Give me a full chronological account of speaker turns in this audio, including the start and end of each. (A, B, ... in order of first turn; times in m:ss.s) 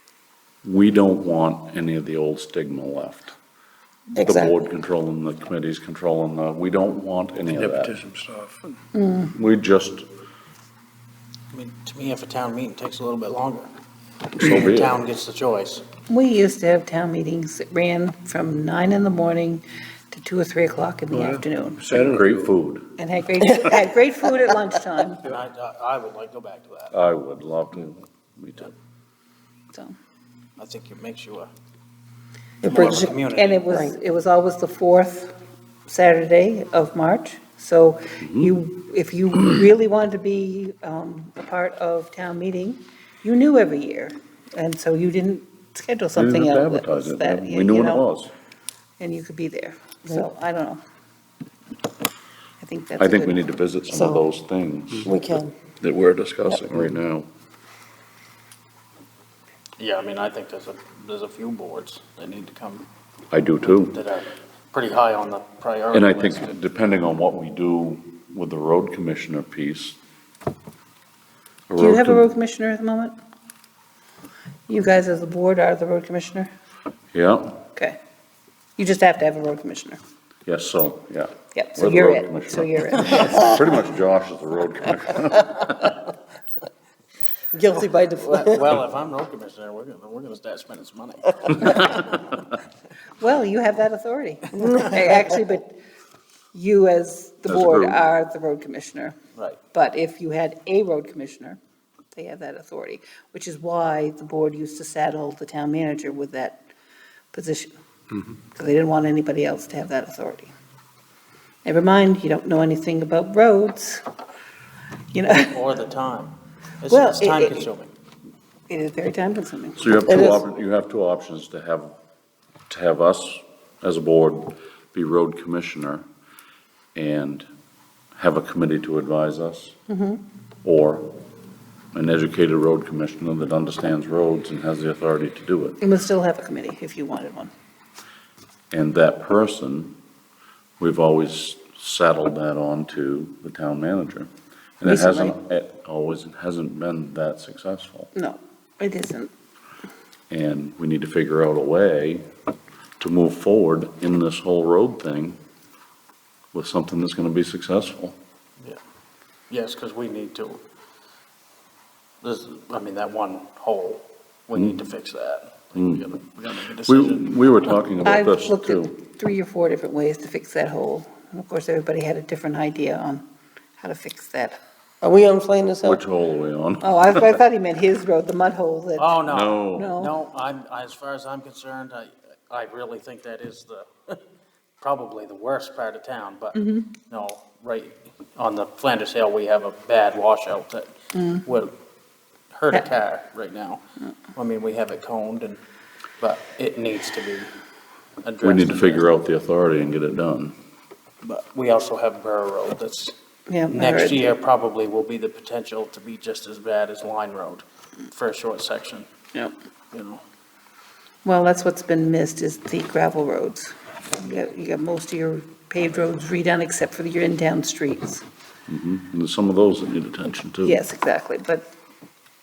0:00.6-0:03.3 A
0:04.2-0:04.5 B
0:04.2-0:08.0 A
0:07.7-0:08.6 C
0:08.9-0:09.3 D
0:09.3-0:10.0 A
0:11.5-0:13.7 E
0:14.4-0:15.8 E
0:14.4-0:14.9 A
0:16.1-0:21.8 D
0:21.1-0:22.5 C
0:21.9-0:22.9 A
0:23.0-0:25.2 D
0:25.2-0:26.9 E
0:26.9-0:28.7 A
0:30.6-0:31.5 E
0:32.6-0:34.0 B
0:32.6-0:33.6 E
0:32.7-0:35.3 D
0:35.9-0:48.0 D
0:38.2-0:38.6 A
0:46.1-0:48.3 A
0:49.0-0:50.8 D
0:52.6-0:53.4 D
0:53.0-0:55.1 A
0:53.9-0:54.2 B
0:55.0-0:55.5 B
0:55.8-0:57.3 A
0:59.8-1:02.9 E
1:03.3-1:04.0 A
1:03.6-1:06.5 E
1:05.9-1:10.0 A
1:11.7-1:12.2 A
1:11.8-1:13.1 D
1:14.7-1:16.5 D
1:17.1-1:17.6 A
1:18.8-1:20.0 D
1:20.4-1:26.0 A
1:21.5-1:23.6 D
1:27.5-1:28.8 B
1:28.2-1:32.4 E
1:33.2-1:35.7 D
1:34.6-1:34.9 B
1:36.5-1:39.2 D
1:37.5-1:38.0 A
1:39.3-1:39.6 E
1:39.7-1:41.6 D
1:42.1-1:46.6 D
1:47.3-1:47.7 D
1:48.5-1:50.5 D
1:51.6-1:54.0 D
1:55.1-1:55.6 D
1:55.3-1:57.9 E
1:56.9-1:57.7 D
1:58.7-2:00.1 D
1:59.8-2:01.9 A
2:00.1-2:00.4 B
2:02.7-2:06.0 A
2:06.9-2:07.5 A
2:08.1-2:09.8 A
2:09.9-2:10.2 D
2:10.6-2:11.1 A
2:11.9-2:15.8 A
2:15.8-2:17.5 D
2:18.7-2:20.0 A
2:20.8-2:28.1 A
2:24.8-2:25.3 D
2:28.1-2:29.3 D
2:30.3-2:32.3 A
2:33.0-2:35.4 A
2:36.5-2:38.2 A
2:39.5-2:40.6 E
2:42.2-2:47.3 E
2:45.8-2:46.0 A
2:46.8-2:48.9 A
2:48.0-2:53.2 D
2:53.8-2:54.6 D
2:55.0-2:56.0 B
2:55.8-2:57.3 A
2:56.8-2:59.2 D
2:59.0-3:04.2 E
2:59.3-2:59.9 A
2:59.7-3:00.1 D
3:04.8-3:11.7 E
3:06.5-3:06.9 D
3:11.1-3:11.5 D
3:12.5-3:13.8 E
3:14.3-3:15.6 E
3:16.2-3:17.5 E
3:18.2-3:19.0 E
3:18.4-3:20.5 A
3:21.2-3:23.1 E
3:23.5-3:24.2 D
3:23.7-3:29.1 E
3:29.9-3:30.2 E
3:31.2-3:38.2 D
3:38.7-3:40.8 A
3:40.6-3:41.6 D